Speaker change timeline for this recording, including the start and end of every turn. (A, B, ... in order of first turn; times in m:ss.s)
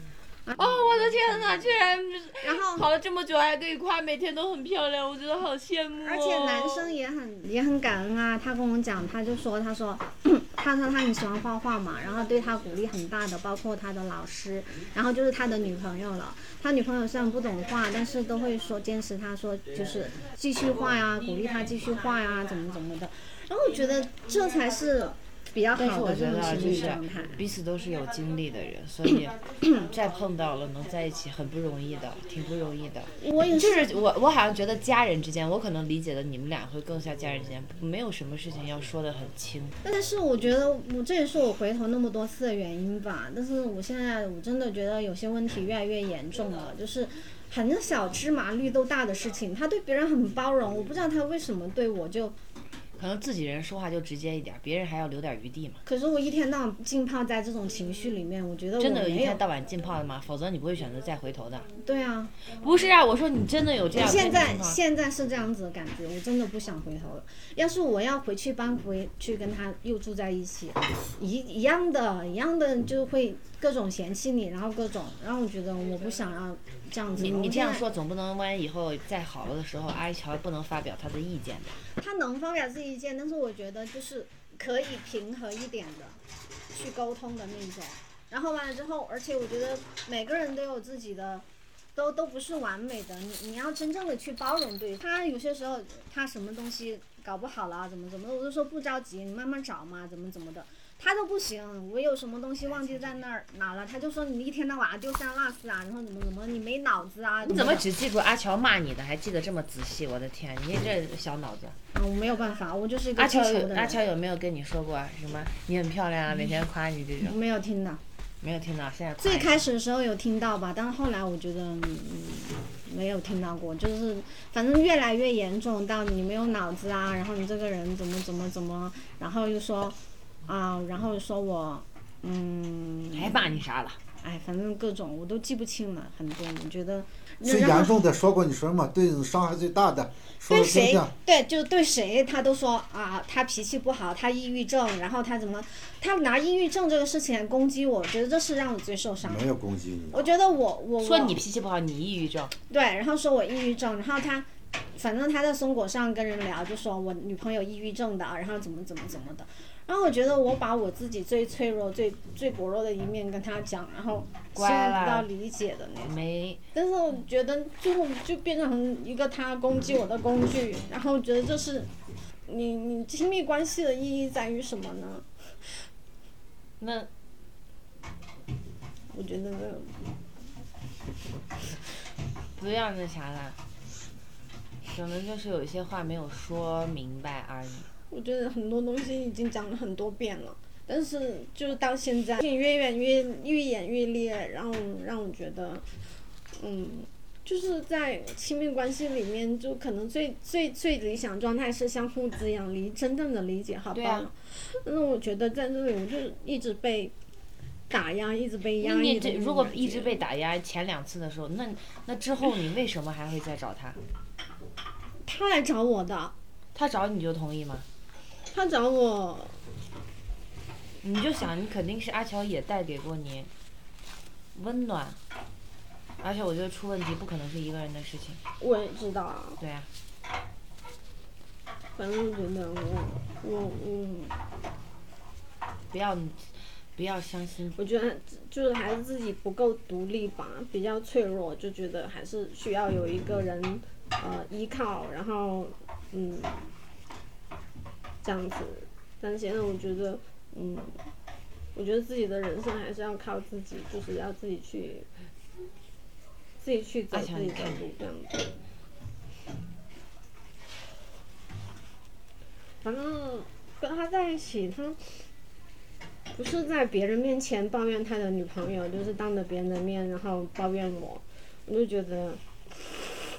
0:00.5-0:06.9 A
0:02.4-0:02.8 B
0:06.0-0:27.4 B
0:25.7-0:39.8 A
0:33.2-0:33.9 B
0:39.8-0:52.3 B
0:53.0-0:55.8 A
0:55.8-0:59.4 B
0:58.8-1:01.7 A
1:01.8-1:02.3 B
1:02.5-1:04.8 A
1:04.0-1:17.8 B
1:17.1-1:21.9 A
1:22.0-1:26.2 B
1:26.7-1:47.9 B
1:47.4-1:51.8 A
1:51.9-1:54.0 B
1:53.2-1:57.4 A
1:57.2-1:58.0 B
1:58.4-1:59.6 A
1:59.2-2:13.4 B
2:13.1-2:14.0 A
2:14.2-2:17.9 B
2:17.4-2:21.1 C
2:20.5-2:29.4 B
2:29.2-2:30.3 C
2:30.1-2:31.4 B
2:31.0-2:32.5 A
2:32.7-2:46.1 B
2:44.5-2:45.3 A
2:46.0-2:46.6 A
2:46.7-2:51.9 B
2:52.5-2:55.7 B
2:56.8-2:57.1 A
2:59.1-3:00.0 B
3:02.6-3:03.6 A
3:04.8-3:07.9 A
3:08.1-3:15.8 B
3:16.5-3:27.1 B
3:23.9-3:24.3 A
3:27.9-3:30.1 B
3:28.8-3:34.0 A
3:35.2-3:36.3 B
3:36.7-3:37.9 A
3:38.5-3:39.6 B
3:41.0-3:43.5 A
3:44.5-3:45.2 A
3:46.2-3:48.4 A
3:48.6-3:49.6 B
3:49.6-3:49.9 A
3:52.0-3:54.4 B
3:55.9-3:57.8 A
3:57.7-4:06.7 B
4:08.2-4:10.9 B
4:11.7-4:15.1 B
4:16.6-4:18.5 B
4:17.1-4:17.8 A
4:22.8-4:25.2 B
4:26.3-4:33.2 B